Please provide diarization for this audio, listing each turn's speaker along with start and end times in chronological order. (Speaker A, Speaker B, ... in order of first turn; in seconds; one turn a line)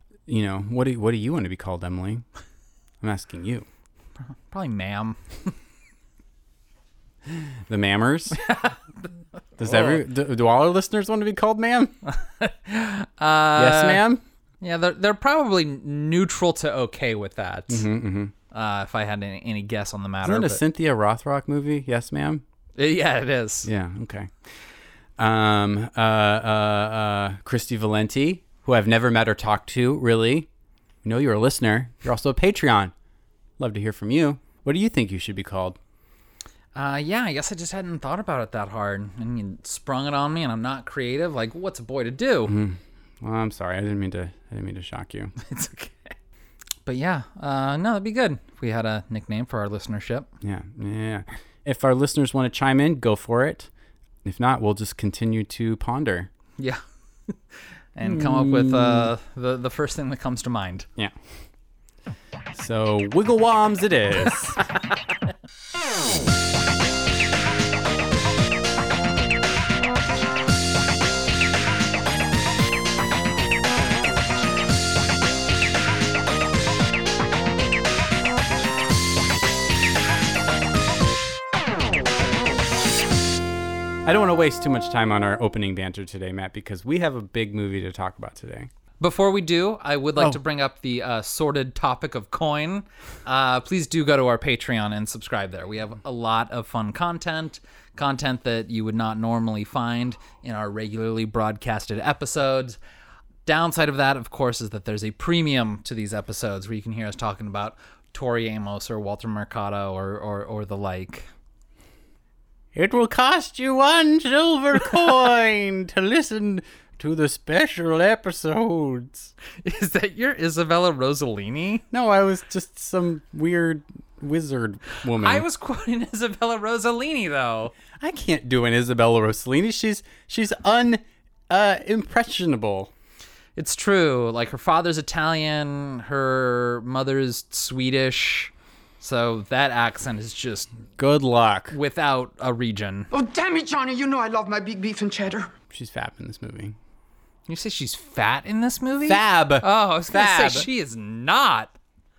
Speaker A: 0.3-2.2
Speaker A: 3.0-3.7
Speaker B: 4.5-5.5
Speaker A: 7.3-8.4
Speaker B: 8.4-8.8
Speaker A: 9.6-11.9
Speaker B: 9.6-10.0
Speaker B: 12.4-14.0
Speaker A: 13.6-14.2
Speaker B: 14.6-17.9
Speaker A: 17.7-18.3
Speaker B: 18.5-20.6
Speaker A: 20.2-22.4
Speaker B: 22.8-23.7
Speaker A: 23.6-24.3
Speaker A: 25.2-30.5
Speaker A: 31.0-32.9
Speaker A: 33.6-35.8
Speaker B: 36.8-42.5
Speaker A: 42.5-45.3
Speaker B: 45.4-46.1
Speaker B: 46.9-50.3
Speaker A: 50.4-53.7
Speaker A: 54.2-56.3
Speaker B: 56.6-57.3
Speaker B: 58.0-60.9
Speaker A: 58.0-59.1
Speaker A: 62.5-64.6
Speaker A: 84.1-88.7
Speaker B: 89.0-102.8
Speaker B: 103.5-111.3
Speaker A: 112.8-119.3
Speaker B: 119.6-121.8
Speaker A: 121.9-125.5
Speaker B: 125.1-127.7
Speaker A: 128.0-132.9
Speaker B: 133.6-140.7
Speaker A: 141.0-141.8
Speaker B: 141.7-143.1
Speaker C: 143.1-145.5
Speaker A: 145.7-146.8
Speaker B: 147.5-151.7
Speaker A: 149.1-150.7